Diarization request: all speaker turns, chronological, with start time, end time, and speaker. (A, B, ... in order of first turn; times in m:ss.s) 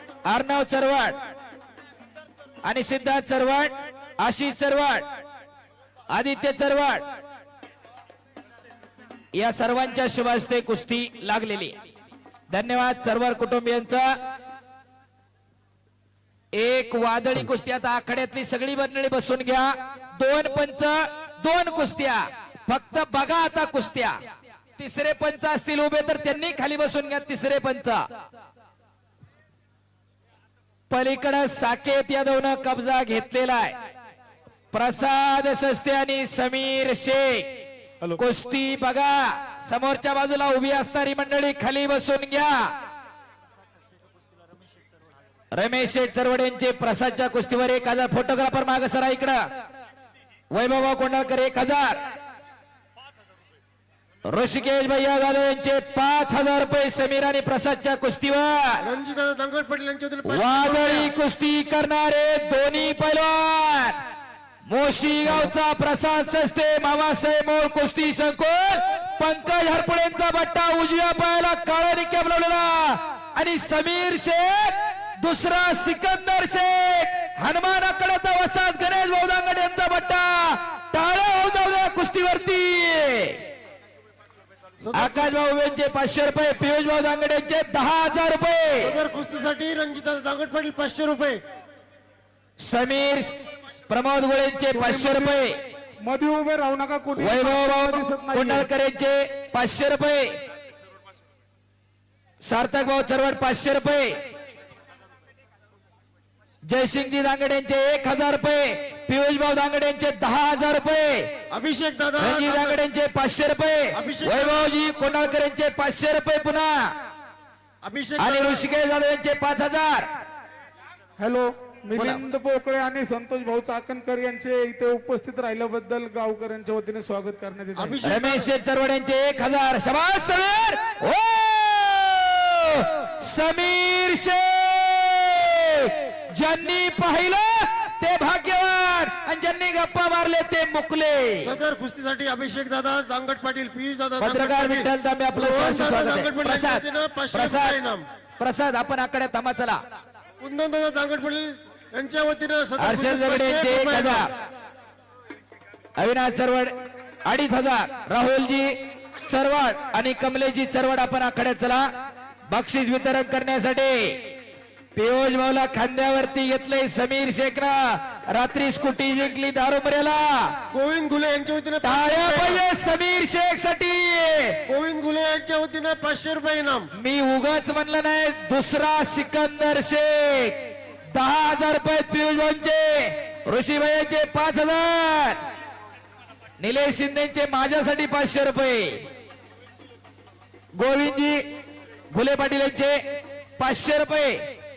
0:00.3-0:01.2 A
0:02.6-0:05.0 A
0:06.1-0:07.0 A
0:09.4-0:11.8 A
0:12.5-0:14.0 A
0:16.6-0:24.2 A
0:24.8-0:28.0 A
0:30.9-0:33.8 A
0:34.7-0:37.5 A
0:38.2-0:42.7 A
0:45.5-0:49.4 A
0:50.5-0:52.0 A
0:54.3-0:58.8 A
0:58.8-1:01.1 B
1:00.3-1:04.0 A
1:04.7-1:23.4 A
1:24.8-1:25.3 B
1:24.9-1:29.0 A
1:28.8-1:31.4 B
1:32.6-1:33.4 A
1:33.9-1:35.6 A
1:34.7-1:35.4 C
1:36.0-1:38.7 C
1:37.2-1:40.4 A
1:42.4-1:44.2 A
1:46.7-1:51.3 A
1:51.5-1:52.8 B
1:52.2-1:56.9 A
1:53.9-1:54.7 B
1:57.8-1:58.7 B
1:58.2-2:00.1 A
2:01.2-2:08.0 C
2:02.0-2:02.2 B
2:07.8-2:08.5 B
2:08.0-2:21.5 A
2:21.4-2:28.0 B
2:24.2-2:27.8 A
2:28.4-2:29.8 A
2:30.4-2:34.3 B
2:32.8-2:34.3 A
2:36.0-2:41.9 A
2:42.5-2:44.3 A
2:45.0-2:50.5 A
2:50.7-2:52.6 B
2:51.8-2:54.6 A
2:54.7-2:56.9 B
2:57.0-3:00.6 A
3:01.1-3:05.4 A
3:06.6-3:09.0 A
3:10.8-3:11.4 A
3:12.1-3:13.0 A
3:13.6-3:14.4 A